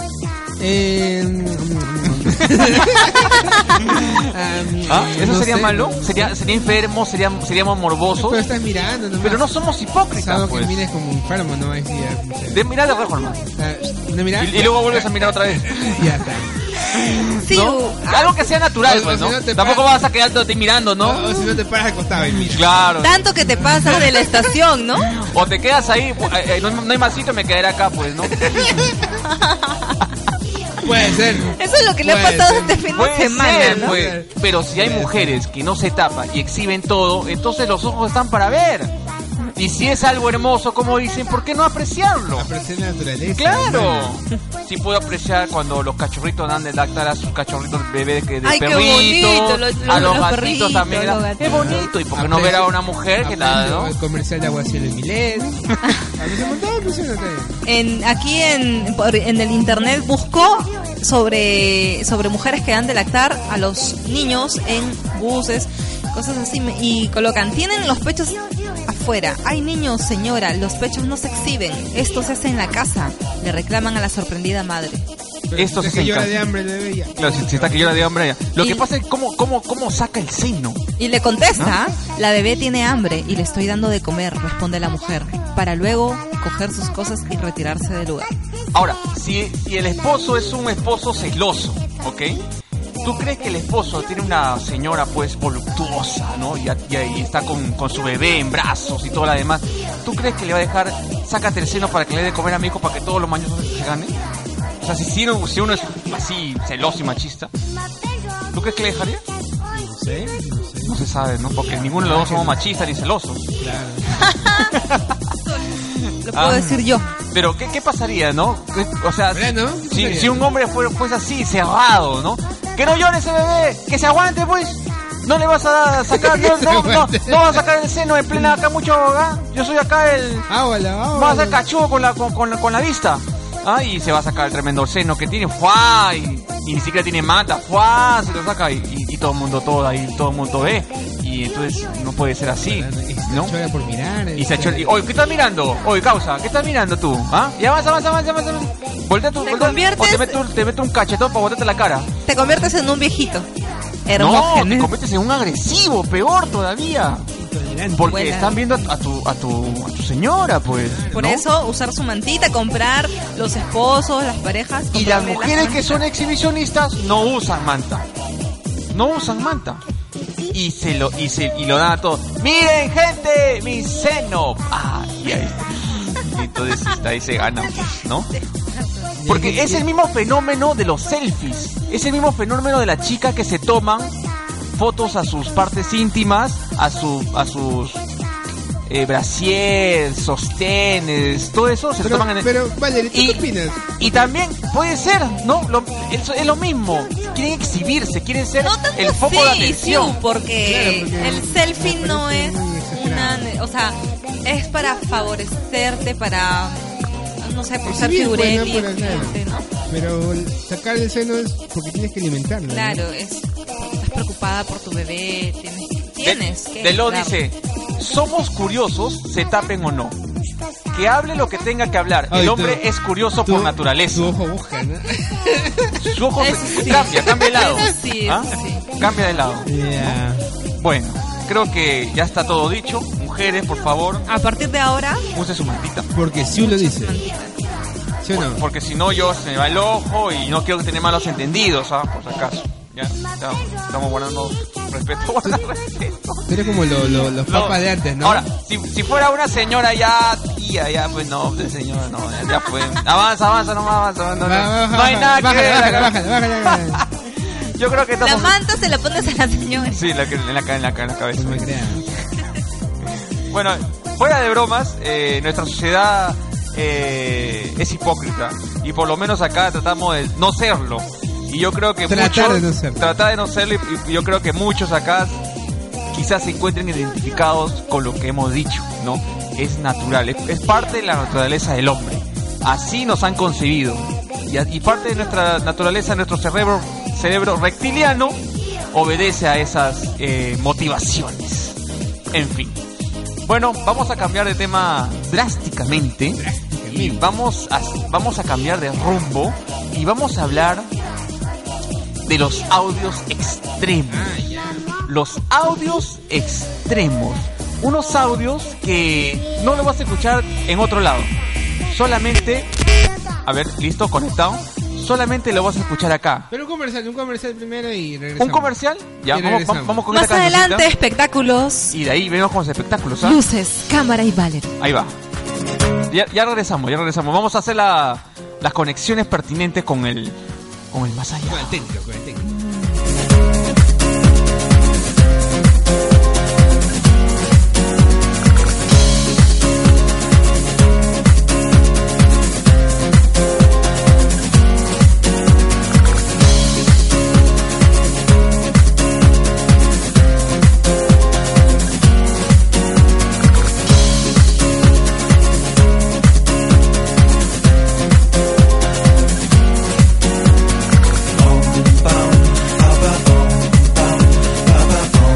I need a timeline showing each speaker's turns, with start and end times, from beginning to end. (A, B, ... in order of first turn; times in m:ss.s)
0:00.6-0:06.5 A
0:02.4-0:03.0 B
0:03.8-0:04.3 B
0:04.9-0:08.4 B
0:08.2-0:09.5 A
0:09.2-0:10.8 B
0:10.1-0:12.7 A
0:12.5-0:13.4 B
0:13.4-0:16.6 A
0:14.4-0:16.1 B
0:16.9-0:21.5 B
0:17.4-0:18.5 C
0:18.8-0:19.9 A
0:21.0-0:22.8 A
0:22.4-0:23.3 B
0:23.0-0:25.1 C
0:23.6-0:24.0 A
0:25.0-0:28.7 B
0:28.5-0:29.0 A
0:29.2-0:30.0 C
0:30.8-0:32.9 A
0:31.5-0:34.0 C
0:32.9-0:38.9 B
0:33.5-0:35.4 A
0:39.6-0:42.5 B
0:42.4-0:44.2 A
0:43.4-0:53.9 B
0:48.4-0:51.9 C
0:51.4-0:57.6 A
0:57.7-1:15.0 C
1:15.5-1:18.1 A
1:15.6-1:16.5 B
1:17.2-1:20.8 B
1:18.6-1:18.8 C
1:21.0-1:28.3 C
1:28.7-1:32.4 B
1:33.0-1:44.1 B
1:44.8-1:47.5 B
1:48.5-1:49.2 B
1:49.7-1:52.7 A
1:50.8-1:53.4 B
1:53.6-1:54.2 A
1:54.2-1:54.7 C
1:54.7-1:55.2 B
1:55.5-1:57.1 C
1:55.8-2:10.5 B
1:59.3-2:00.5 A
2:06.1-2:07.6 A
2:08.3-2:08.6 A
2:10.5-2:11.6 A
2:11.1-2:23.5 B
2:22.6-2:25.0 A
2:24.4-2:32.1 B
2:29.4-2:30.4 C
2:32.3-2:33.5 C
2:34.1-2:34.9 C
2:34.2-2:37.3 B
2:37.4-2:38.2 A
2:37.9-2:41.4 B
2:38.1-2:38.6 C
2:40.7-2:41.3 A
2:41.1-2:46.0 C
2:44.9-2:48.1 B
2:48.9-2:49.8 B
2:50.5-2:58.3 B
2:58.7-2:59.1 C
2:59.2-2:59.9 A
2:59.3-3:04.1 B
3:04.7-3:08.0 B
3:08.9-3:12.5 B
3:12.0-3:14.3 A
3:13.1-3:13.4 B
3:14.0-3:20.2 B
3:18.6-3:29.7 C
3:20.6-3:23.5 A
3:27.8-3:33.0 A
3:32.7-3:37.4 C
3:36.2-3:40.2 B
3:40.9-3:44.3 B
3:42.3-3:42.8 A
3:43.4-3:46.1 A
3:46.0-3:50.2 B
3:46.4-3:48.9 C
3:47.3-3:47.8 A
3:49.6-3:50.5 A
3:50.8-3:54.3 B
3:54.3-3:55.2 C
3:55.3-3:56.1 B
3:56.1-3:57.2 A
3:56.6-3:57.6 C
3:58.2-3:58.6 A
3:58.4-4:18.6 B
4:06.5-4:08.4 A
4:14.4-4:17.0 A
4:18.2-4:20.0 C
4:19.9-4:21.9 B
4:21.4-4:22.1 A
4:23.5-4:35.4 B
4:32.0-4:33.2 A
4:36.1-4:48.4 B
4:48.9-4:51.8 B
4:52.3-4:52.8 B
4:53.5-5:00.9 B
4:56.4-4:57.2 A
5:02.2-5:04.4 B
5:04.1-5:05.0 A
5:05.1-5:11.3 B
5:11.9-5:12.7 B
5:13.4-5:16.5 B
5:16.5-5:18.8 A
5:18.4-5:20.9 B
5:19.3-5:20.0 A
5:20.1-5:22.0 C
5:21.9-5:23.4 B
5:23.2-5:24.7 C
5:24.8-5:25.1 B
5:26.1-5:30.4 B
5:30.9-5:31.8 B
5:31.4-5:32.5 A